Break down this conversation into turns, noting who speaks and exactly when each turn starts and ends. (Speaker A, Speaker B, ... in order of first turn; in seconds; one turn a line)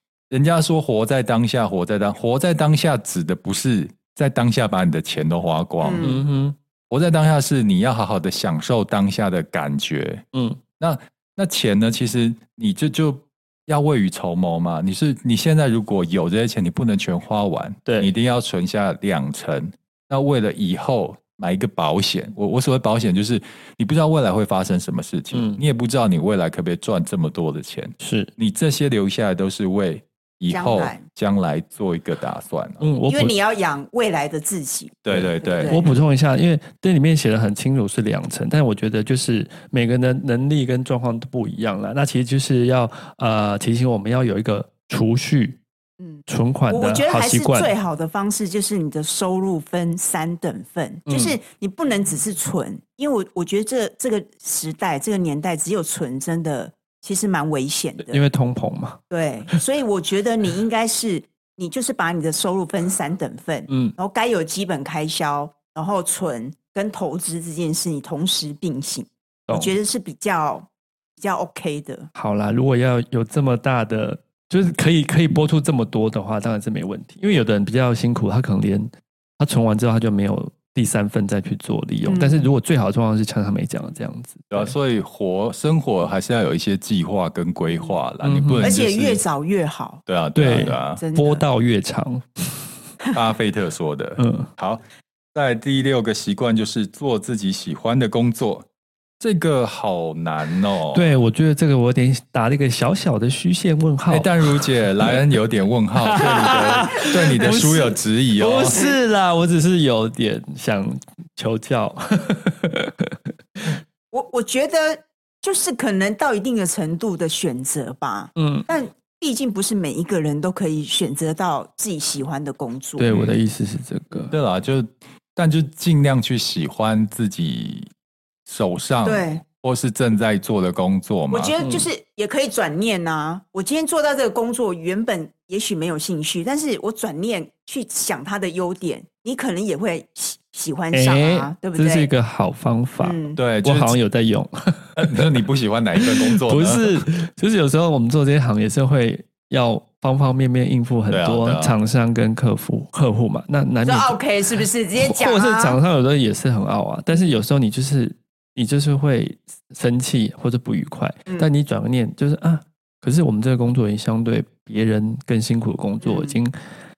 Speaker A: 0.3-6.2
Speaker B: 5.8-6.2
Speaker C: 6.0-6.5
Speaker A: 6.9-10.2
Speaker C: 10.3-10.6
Speaker A: 10.8-32.9
Speaker C: 25.3-25.6
Speaker C: 28.0-28.3
Speaker B: 30.5-31.0
Speaker C: 32.8-33.3
Speaker B: 33.1-35.9
Speaker A: 35.0-35.8
Speaker C: 35.1-45.6
Speaker B: 46.0-58.2
Speaker C: 46.3-47.7
Speaker C: 51.1-51.4
Speaker C: 58.1-59.0
Speaker B: 59.1-72.1
Speaker C: 63.7-63.9
Speaker C: 69.5-69.8
Speaker C: 72.1-84.7
Speaker B: 82.0-82.5
Speaker A: 84.5-89.2
Speaker C: 88.2-88.7
Speaker B: 88.6-91.4
Speaker A: 90.0-91.0
Speaker C: 90.3-92.7
Speaker A: 93.1-94.8
Speaker C: 94.2-94.5
Speaker A: 95.3-98.7
Speaker A: 99.2-101.1
Speaker C: 100.9-105.2
Speaker A: 104.1-108.8
Speaker C: 106.0-113.8
Speaker B: 114.1-123.1
Speaker C: 118.4-118.7
Speaker C: 123.0-124.3
Speaker A: 123.1-123.4
Speaker A: 124.3-127.9
Speaker A: 128.4-131.5
Speaker B: 129.0-129.4
Speaker B: 131.3-142.1
Speaker C: 131.6-131.9
Speaker C: 140.9-145.3
Speaker B: 143.0-143.4
Speaker A: 143.3-144.0
Speaker A: 144.9-147.0
Speaker C: 146.0-166.5
Speaker A: 151.1-151.7
Speaker B: 153.8-155.8
Speaker B: 166.0-166.4